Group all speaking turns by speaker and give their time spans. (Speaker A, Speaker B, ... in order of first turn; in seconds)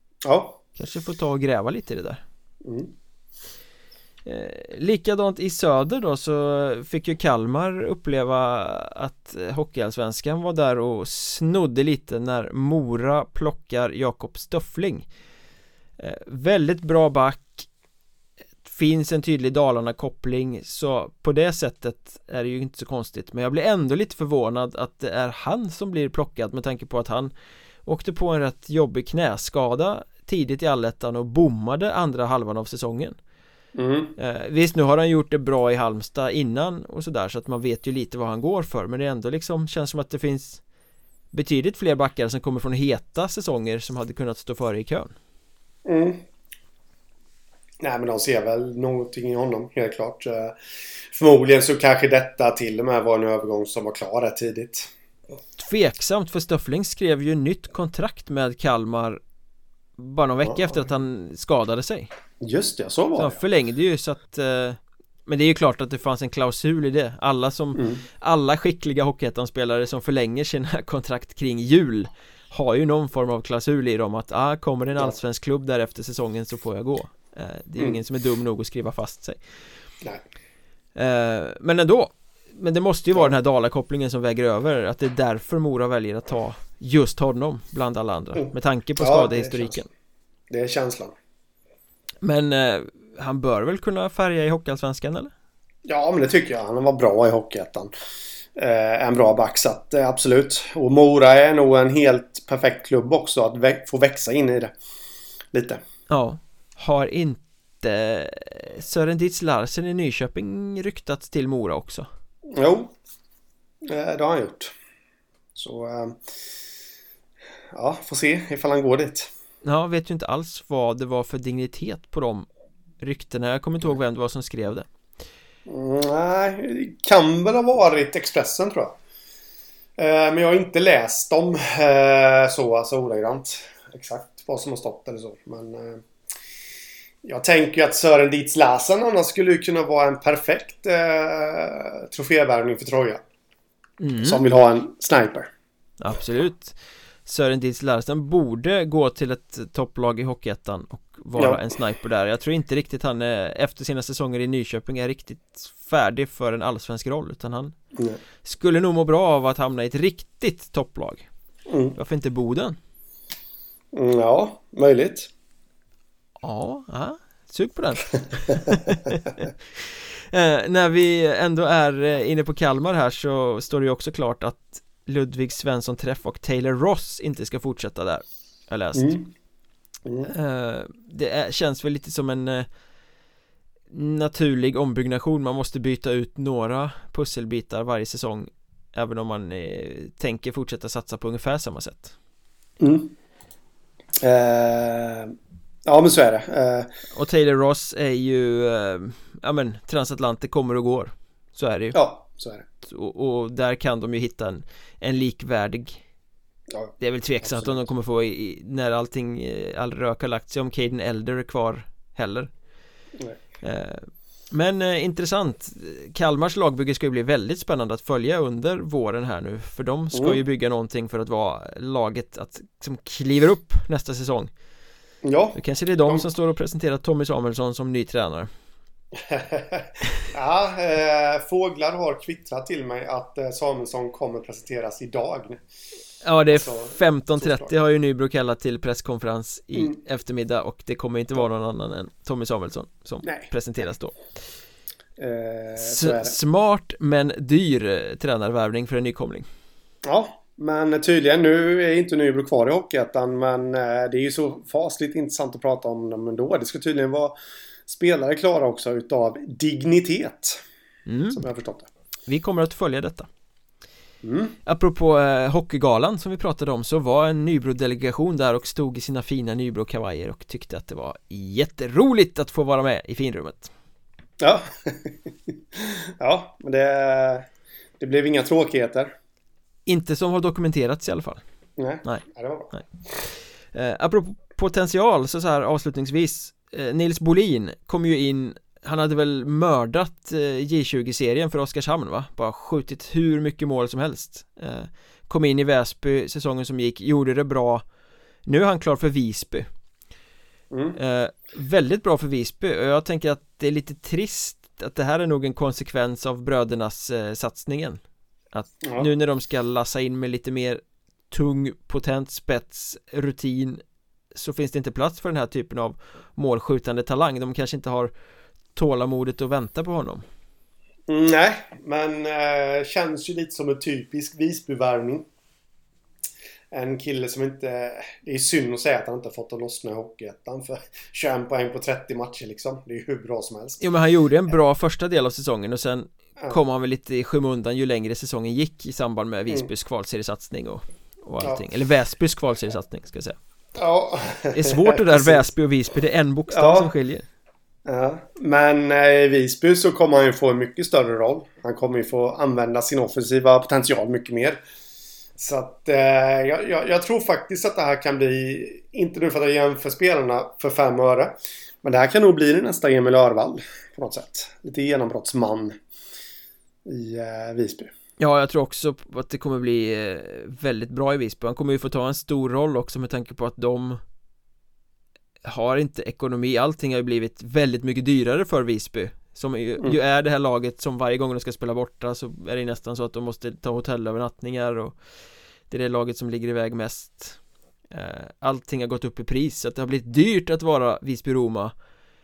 Speaker A: 0.2-0.6, 2.6-2.9, 33.7-34.1, 45.8-46.2, 47.8-54.9, 60.4-60.8, 62.4-63.4, 67.8-68.0, 89.0-89.8, 90.5-91.1, 95.8-97.9, 98.5-104.7, 105.5-105.8, 112.5-112.9, 113.8-114.7, 115.5-116.2, 117.7-119.3, 125.7-128.9, 130.0-136.0, 137.2-143.2, 144.2-145.5, 151.4-151.6, 161.7-161.9, 163.9-165.3, 178.9-179.3, 180.0-180.3, 192.8-193.1, 194.2-195.3, 195.8-196.9, 201.9-202.6, 206.7-207.8, 220.1-220.4, 225.2-226.3, 229.1-235.6, 236.5-237.7, 245.2-246.3, 250.0-257.3, 257.9-260.6, 261.3-261.9, 264.2-264.5, 274.4-277.5, 278.0-279.1, 281.8-282.7, 300.7-301.0, 308.8-309.1, 321.1-325.3, 326.7-333.8, 343.8-345.4, 346.5-346.9, 347.9-354.6, 355.4-365.8, 366.8-367.9
Speaker B: 0.8-2.2, 4.2-15.1, 16.0-17.7, 18.6-27.3, 27.9-33.2, 34.2-40.6, 41.3-45.1, 55.6-59.2, 60.0-62.1, 63.2-79.4, 81.0-89.8, 92.2-95.3, 106.1-112.1, 119.6-122.5, 123.0-124.9, 144.0-144.4, 146.0-157.7, 158.4-161.3, 161.9-162.8, 166.4-179.2, 180.2-182.7, 183.9-192.1, 197.1-202.0, 202.8-206.0, 207.0-212.5, 213.6-224.5, 225.5-228.5, 236.2-244.1, 245.8-249.5, 261.1-261.4, 262.3-263.3, 264.6-273.7, 279.9-281.4, 282.0-297.8, 298.4-299.7, 300.9-308.0, 308.5-313.8, 314.3-318.1, 318.7-320.2, 333.8-343.4, 344.5-347.2, 368.2-374.0, 375.4-384.9, 385.7-387.4, 387.9-391.7